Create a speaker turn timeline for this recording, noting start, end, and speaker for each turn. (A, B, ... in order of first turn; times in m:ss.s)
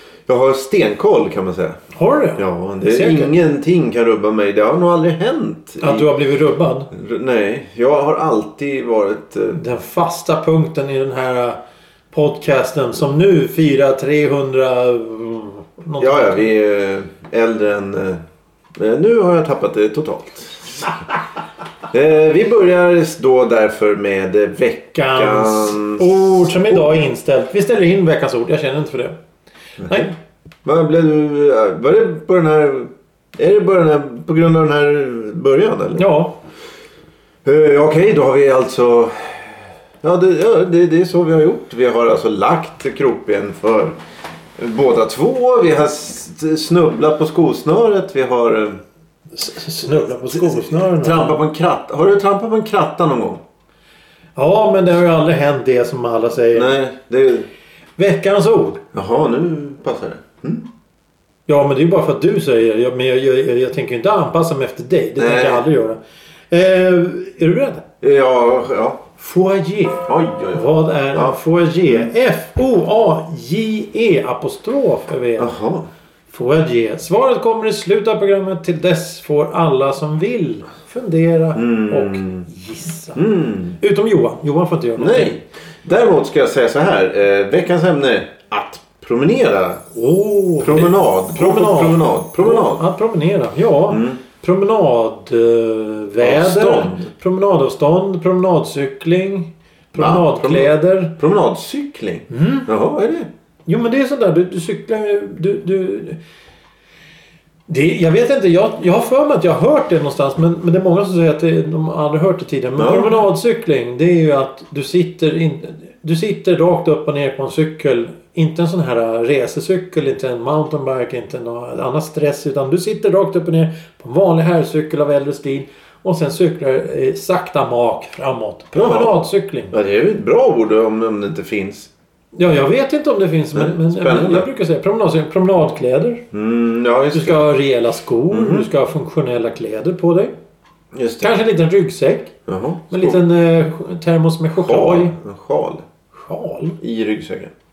0:00.3-0:01.8 A
0:01.9-0:03.3 B
0:02.4-0:06.1 A
0:05.8-0:06.9 B
0:06.9-0:09.6 A
0:09.5-0:11.6 B
0:12.1-0:16.5 B
0:16.0-0:18.2 A
0:18.8-0:21.0 A
0:21.9-0:27.0 A
0:25.0-0:29.2 B
0:29.8-0:30.1 A
0:29.9-0:30.2 B
0:30.6-0:36.0 A
0:36.0-0:36.4 B
0:37.4-0:44.0 A
0:44.6-0:48.8 A
0:49.3-0:51.4 B
0:50.3-0:53.4 A
0:54.4-0:56.7 B
0:56.5-0:57.5 A
0:58.0-0:58.8 B
0:58.9-1:00.7 A
1:01.5-1:06.0 B
1:05.2-1:05.6 A
1:06.5-1:07.8 B
1:08.0-1:09.0 A
1:09.2-1:15.6 B
1:10.1-1:12.1 A
1:15.4-1:15.9 A
1:16.3-1:23.2 B
1:21.6-1:22.5 A
1:23.2-1:23.8 A
1:23.8-1:25.3 B
1:25.0-1:29.8 A
1:29.9-1:41.2 B
1:30.6-1:32.8 A
1:33.9-1:34.2 A
1:36.2-1:37.1 A
1:40.0-1:43.3 A
1:42.3-1:42.7 B
1:43.7-1:46.2 B
1:47.7-2:09.7 B
1:52.8-1:53.2 A
2:08.7-2:11.9 A
2:12.4-2:16.2 B
2:13.5-2:14.5 A
2:16.3-2:17.4 A
2:17.1-2:20.3 B
2:18.3-2:18.7 A
2:20.9-2:21.4 A
2:21.2-2:22.3 B
2:22.5-2:23.2 A
2:22.9-2:25.1 B
2:24.6-2:25.8 A
2:26.3-2:26.8 B
2:26.8-2:27.5 A